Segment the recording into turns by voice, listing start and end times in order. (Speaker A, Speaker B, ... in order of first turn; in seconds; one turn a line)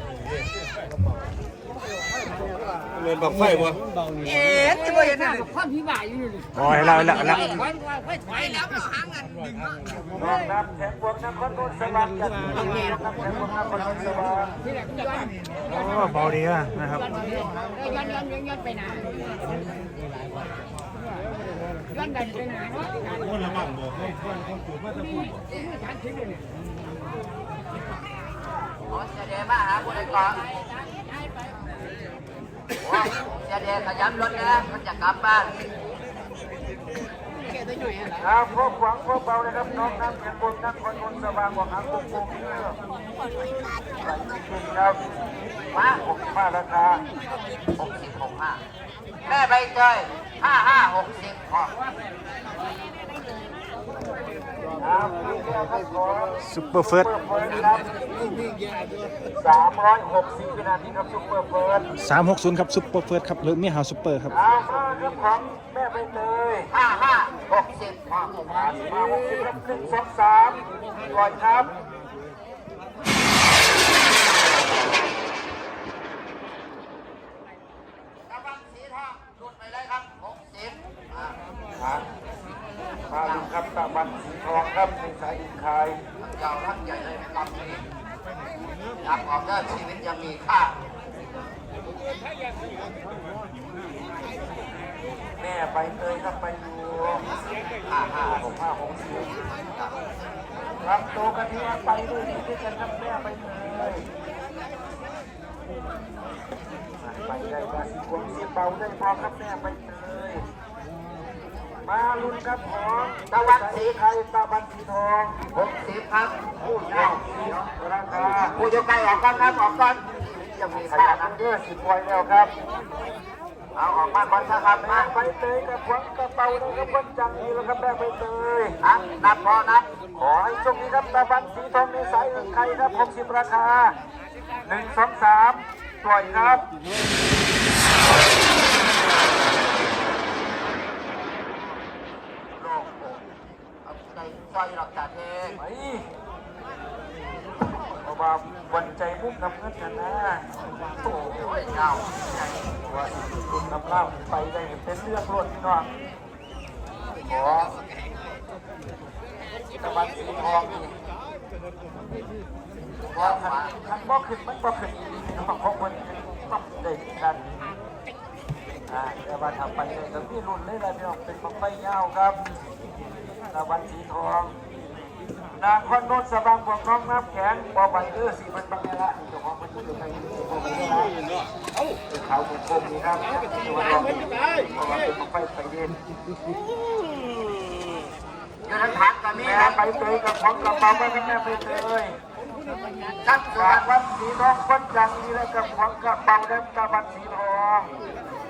Speaker A: 3.1-5.5
Speaker B: 4.2-9.3
Speaker C: 6.5-7.6
Speaker D: 10.1-14.5
Speaker B: 12.6-13.0
Speaker B: 14.6-16.2
Speaker C: 15.7-17.1
Speaker B: 16.9-19.2
Speaker B: 21.9-23.8
Speaker B: 24.9-26.5
Speaker E: 28.9-30.4
Speaker E: 32.8-35.5
Speaker D: 38.2-42.8
Speaker D: 44.0-45.1
Speaker E: 45.7-46.0
Speaker D: 45.8-47.0
Speaker E: 47.8-48.6
Speaker E: 49.2-51.7
Speaker D: 54.8-57.9
Speaker C: 56.4-57.1
Speaker D: 59.4-61.9
Speaker C: 62.0-64.3
Speaker D: 64.3-66.7
Speaker E: 66.7-68.5
Speaker D: 68.5-71.7
Speaker E: 78.2-81.4
Speaker D: 81.8-82.0
Speaker D: 83.1-86.0
Speaker E: 83.1-83.5
Speaker E: 86.2-87.8
Speaker E: 89.0-90.8
Speaker D: 95.4-97.3
Speaker E: 97.9-98.5
Speaker D: 98.2-99.4
Speaker E: 99.6-100.1
Speaker D: 100.8-104.0
Speaker D: 107.0-110.4
Speaker D: 111.8-115.4
Speaker E: 113.3-114.0
Speaker E: 115.5-117.7
Speaker D: 116.6-118.6
Speaker E: 118.2-121.4
Speaker D: 120.7-122.5
Speaker E: 123.8-125.1
Speaker D: 124.6-128.8
Speaker E: 128.8-129.9
Speaker D: 130.2-133.9
Speaker D: 134.7-136.6
Speaker E: 142.5-143.2
Speaker E: 143.8-145.6
Speaker D: 145.6-146.0
Speaker D: 148.0-150.4
Speaker D: 151.0-151.3
Speaker E: 151.1-152.7
Speaker D: 152.9-155.9
Speaker D: 157.3-157.8
Speaker D: 159.8-160.9
Speaker E: 163.1-163.7
Speaker D: 163.1-167.4
Speaker D: 168.9-172.4
Speaker D: 173.5-174.5
Speaker D: 175.5-181.1
Speaker D: 182.1-185.9
Speaker E: 188.7-189.8
Speaker D: 189.4-192.1
Speaker E: 193.2-193.8
Speaker D: 193.5-197.9